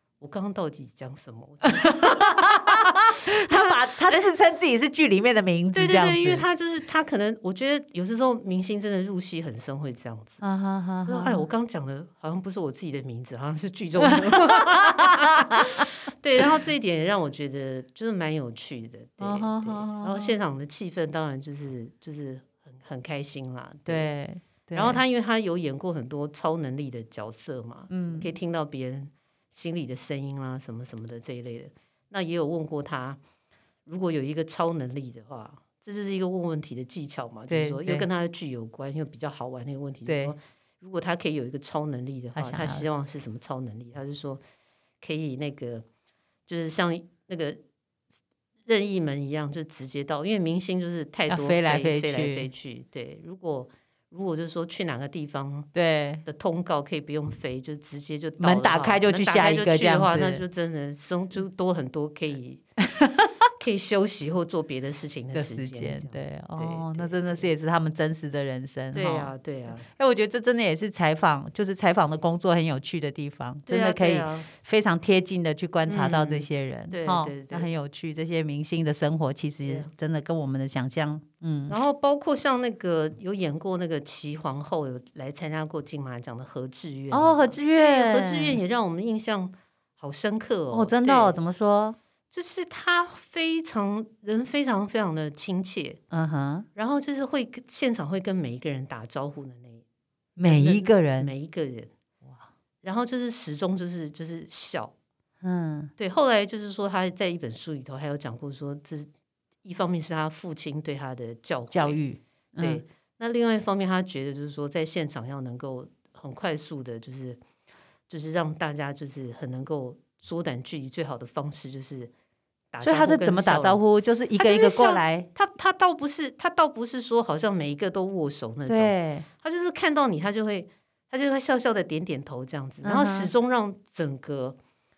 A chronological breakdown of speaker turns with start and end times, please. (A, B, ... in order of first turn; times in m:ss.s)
0:00.2-0:04.3 A
0:01.6-0:06.4 B
0:05.7-0:10.4 A
0:10.4-0:11.4 B
0:11.1-0:24.1 A
0:14.0-0:15.8 B
0:19.2-0:20.3 B
0:23.9-0:25.0 B
0:24.8-0:33.2 A
0:27.9-0:28.3 B
0:33.9-0:44.4 A
0:37.5-0:38.1 B
0:40.1-0:40.4 B
0:42.4-0:42.9 B
0:45.0-0:45.8 A
0:46.5-0:47.6 A
0:48.7-0:55.7 A
0:51.3-0:52.5 B
0:55.7-0:56.2 B
0:56.3-1:02.6 A
0:58.4-1:00.4 B
1:02.8-1:03.3 B
1:03.6-1:07.5 A
1:05.3-1:09.3 B
1:08.9-1:09.9 A
1:09.9-1:21.8 B
1:13.7-1:14.5 A
1:15.9-1:17.7 A
1:21.7-1:31.4 A
1:27.1-1:28.6 B
1:30.7-1:32.0 B
1:32.3-1:36.0 A
1:36.1-1:36.7 B
1:36.8-1:39.8 A
1:40.4-1:41.3 B
1:40.4-1:41.9 A
1:42.8-1:44.9 A
1:45.4-1:45.9 B
1:46.0-1:49.1 A
1:49.6-1:52.0 A
1:51.7-1:52.8 B
1:52.6-1:57.4 A
1:58.1-2:02.1 A
2:02.7-2:03.8 A
2:02.8-2:05.3 B
2:04.4-2:14.6 A
2:08.7-2:09.3 B
2:12.8-2:13.3 B